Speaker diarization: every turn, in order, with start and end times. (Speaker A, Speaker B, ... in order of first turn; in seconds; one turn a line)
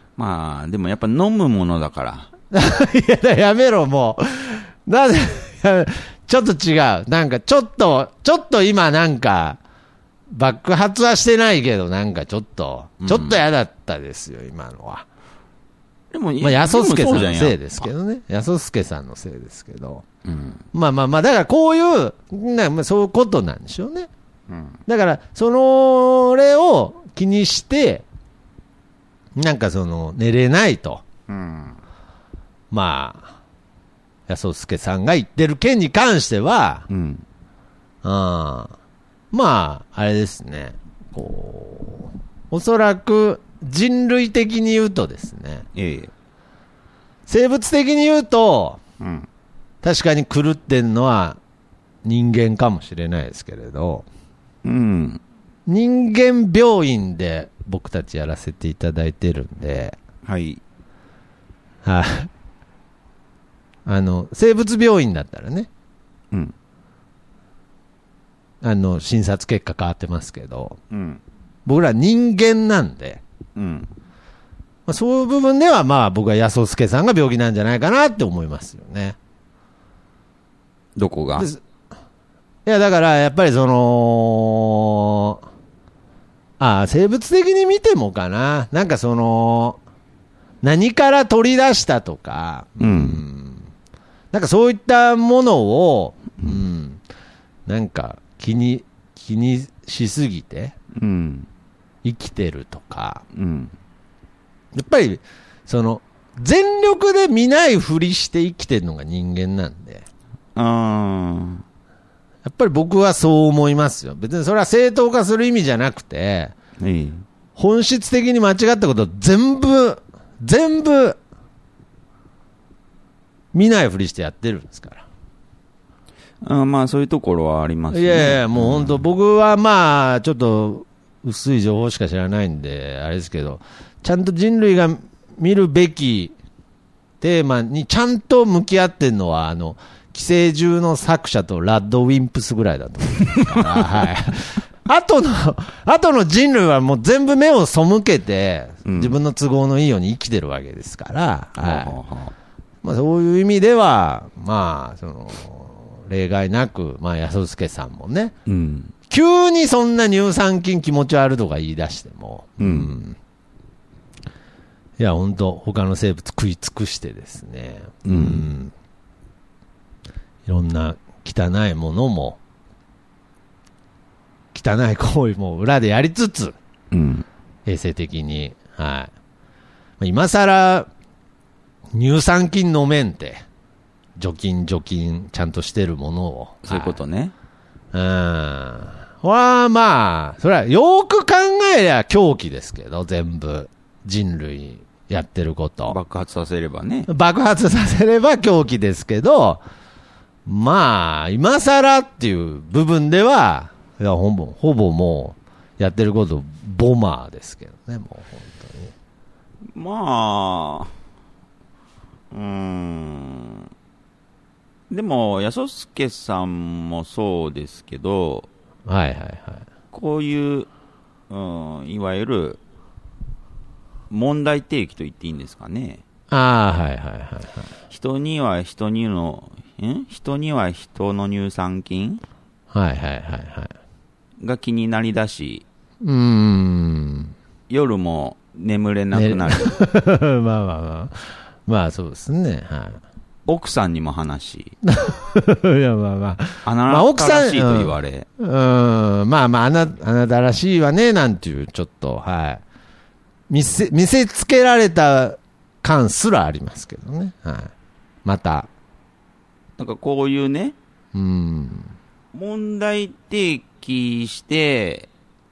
Speaker A: 0.2-2.3
Speaker B: 2.5-9.6
Speaker B: 10.3-15.0
Speaker A: 13.0-13.4
Speaker A: 16.1-17.9
Speaker B: 16.4-20.1
Speaker A: 20.2-20.6
Speaker B: 20.7-24.1
Speaker A: 24.5-24.8
Speaker B: 24.9-28.0
Speaker B: 29.4-31.0
Speaker A: 31.3-31.8
Speaker B: 32.7-33.3
Speaker B: 34.3-36.9
Speaker A: 36.9-37.2
Speaker B: 38.0-38.7
Speaker B: 39.3-45.6
Speaker A: 45.7-46.1
Speaker B: 47.3-48.8
Speaker A: 49.0-49.3
Speaker B: 49.8-51.4
Speaker B: 52.0-54.0
Speaker A: 54.6-55.2
Speaker B: 55.6-60.0
Speaker A: 60.2-60.6
Speaker B: 61.8-62.3
Speaker B: 63.9-65.7
Speaker B: 68.6-70.8
Speaker A: 70.9-71.2
Speaker B: 71.7-73.2
Speaker A: 73.5-73.9
Speaker B: 74.9-79.2
Speaker A: 81.0-81.5
Speaker B: 82.7-85.4
Speaker B: 86.6-89.8
Speaker B: 90.6-93.7
Speaker A: 92.8-93.2
Speaker B: 94.3-97.0
Speaker B: 97.7-100.7
Speaker A: 100.9-101.5
Speaker B: 102.0-103.2
Speaker A: 103.3-103.7
Speaker B: 104.7-110.0
Speaker A: 110.5-111.6
Speaker B: 112.4-116.5
Speaker A: 116.8-117.2
Speaker B: 117.5-121.2
Speaker B: 123.5-125.0
Speaker A: 126.4-129.0
Speaker B: 127.9-136.3
Speaker B: 137.2-151.9
Speaker A: 143.4-143.9
Speaker A: 148.8-149.2
Speaker A: 151.6-152.3
Speaker B: 152.8-158.3
Speaker A: 158.4-158.9
Speaker B: 159.1-163.2
Speaker A: 162.6-162.9
Speaker B: 165.0-168.7
Speaker A: 168.0-168.4
Speaker B: 170.4-172.4
Speaker B: 174.5-176.5
Speaker A: 176.9-177.2
Speaker B: 177.7-179.1
Speaker B: 180.0-180.9
Speaker B: 181.9-183.4
Speaker B: 184.2-187.0
Speaker A: 186.6-187.3
Speaker B: 187.9-196.0
Speaker A: 195.9-197.1
Speaker B: 197.1-199.6
Speaker B: 200.4-208.9
Speaker A: 209.7-210.9
Speaker A: 212.3-213.7
Speaker A: 214.9-218.5
Speaker B: 218.8-219.6
Speaker A: 219.9-220.7
Speaker A: 221.3-222.6
Speaker A: 224.1-226.0
Speaker B: 226.3-227.7
Speaker A: 227.9-232.2
Speaker B: 232.7-233.7
Speaker A: 234.4-235.6
Speaker B: 236.0-237.3
Speaker A: 237.7-239.8
Speaker B: 239.1-243.0
Speaker A: 243.5-244.7
Speaker B: 244.8-252.6
Speaker A: 246.6-248.2
Speaker B: 253.5-257.7
Speaker B: 258.2-258.7
Speaker A: 259.8-260.8
Speaker B: 261.1-261.9
Speaker A: 262.3-265.1